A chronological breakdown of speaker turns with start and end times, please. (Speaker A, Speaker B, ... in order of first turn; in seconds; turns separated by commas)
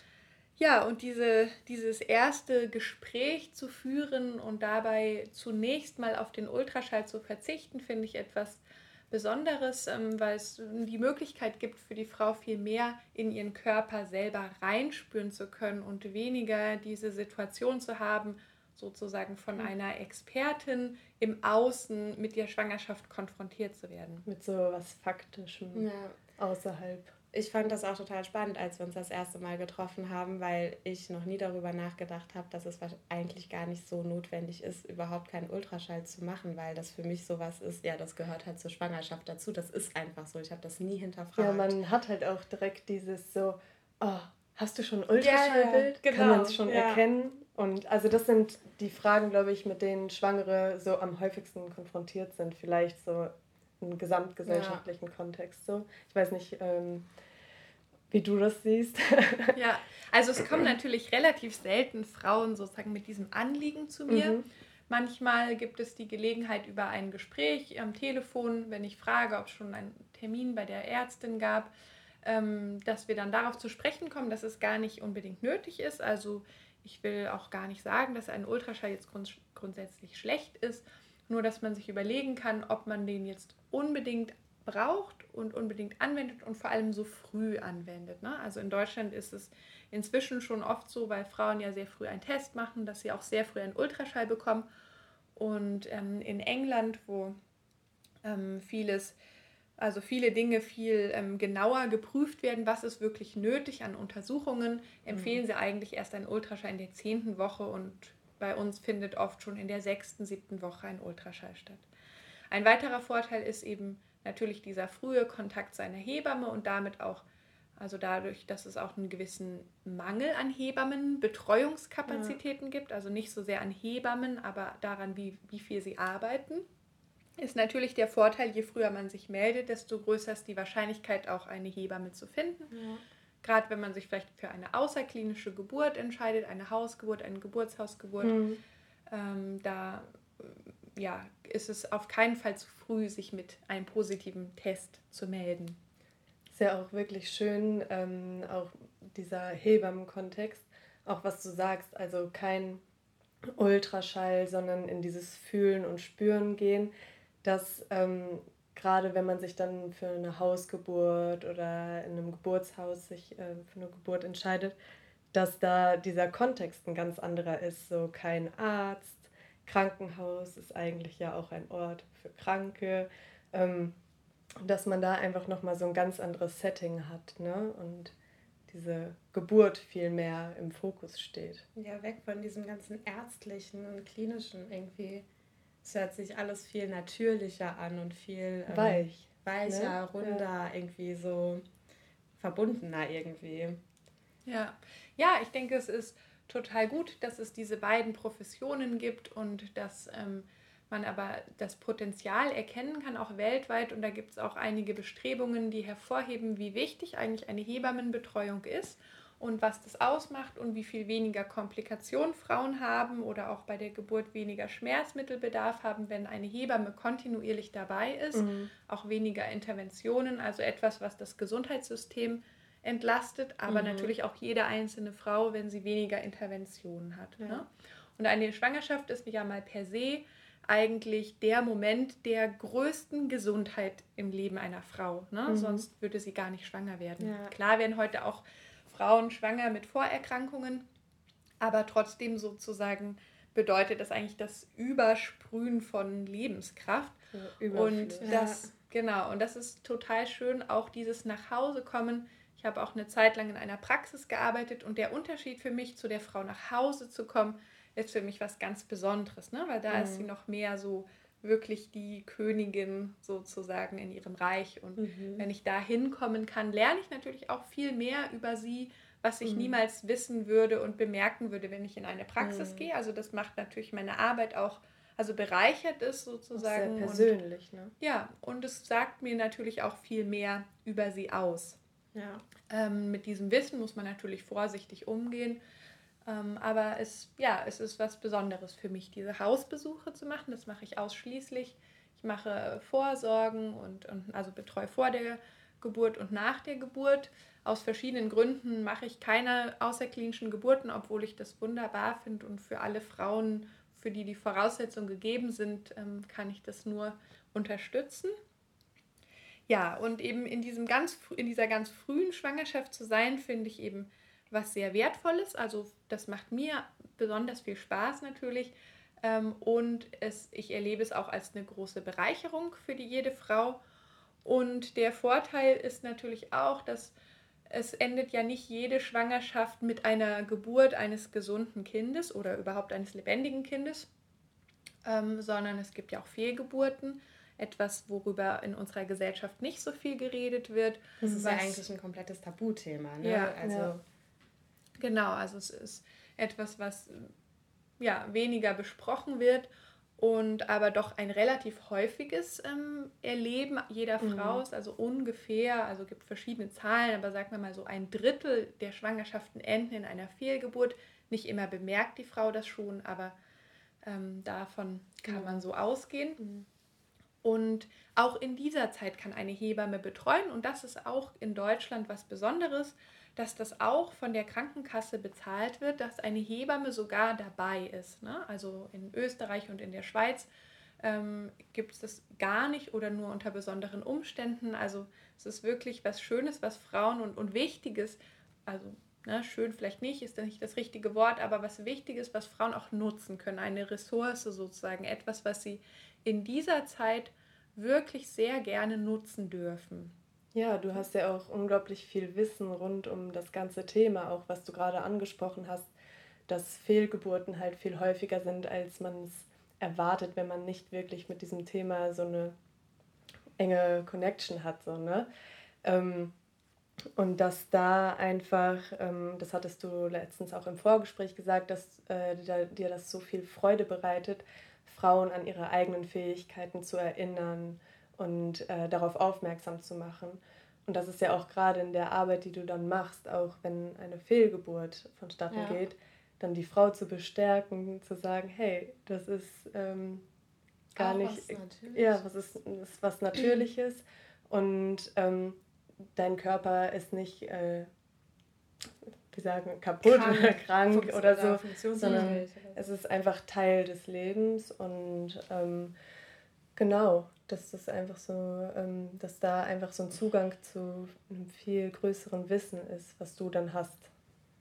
Speaker A: 0.6-24.2, Speaker B: 24.3-27.1, Speaker C: 25.8-26.2, Speaker C: 27.3-41.8, Speaker B: 41.4-57.1, Speaker C: 45.2-47.0, Speaker C: 54.5-54.8, Speaker B: 58.1-59.6, Speaker A: 59.5-64.4, Speaker B: 64.1-64.4, Speaker A: 64.9-71.7, Speaker A: 72.2-94.7, Speaker A: 95.4-97.4, Speaker A: 98.2-99.2, Speaker A: 99.8-111.8, Speaker A: 112.5-117.2, Speaker A: 117.8-126.7, Speaker C: 122.1-122.4, Speaker A: 127.4-132.7, Speaker C: 132.7-133.0, Speaker A: 133.4-138.4, Speaker B: 138.2-138.6, Speaker A: 139.1-145.8, Speaker B: 146.5-152.8, Speaker B: 153.6-156.9, Speaker B: 157.4-164.8, Speaker B: 165.3-173.9, Speaker B: 174.6-178.1, Speaker B: 178.7-181.6, Speaker C: 181.8-185.2, Speaker C: 185.8-191.6, Speaker B: 188.7-190.5, Speaker C: 192.4-193.8, Speaker A: 194.5-240.9, Speaker B: 218.3-218.7, Speaker C: 223.7-224.1, Speaker B: 235.5-235.9, Speaker C: 237.2-237.5, Speaker A: 241.6-247.2, Speaker B: 247.3-248.3, Speaker A: 247.7-277.4, Speaker C: 248.2-248.7, Speaker B: 259.9-260.2, Speaker C: 265.0-265.5, Speaker B: 269.4-269.8, Speaker C: 272.4-272.9, Speaker B: 276.6-277.9, Speaker A: 278.0-281.8, Speaker C: 282.1-282.4, Speaker A: 282.7-285.6, Speaker A: 286.3-308.3, Speaker A: 309.7-323.8, Speaker A: 324.4-327.1, Speaker A: 327.7-334.1, Speaker A: 335.1-341.8, Speaker B: 341.2-341.5, Speaker C: 341.2-344.0, Speaker A: 343.2-343.6, Speaker B: 343.6-343.9, Speaker A: 345.0-347.3, Speaker A: 348.0-363.4, Speaker B: 354.2-354.6, Speaker A: 364.0-366.4, Speaker A: 367.4-380.5, Speaker A: 381.0-400.1, Speaker B: 400.5-405.9, Speaker B: 406.5-412.5, Speaker B: 413.6-415.3, Speaker B: 415.8-416.3, Speaker B: 417.2-440.2, Speaker C: 435.5-435.8, Speaker C: 441.0-442.2, Speaker B: 441.0-445.6, Speaker B: 446.1-447.9, Speaker B: 449.3-455.9, Speaker C: 450.0-452.8, Speaker B: 456.8-464.1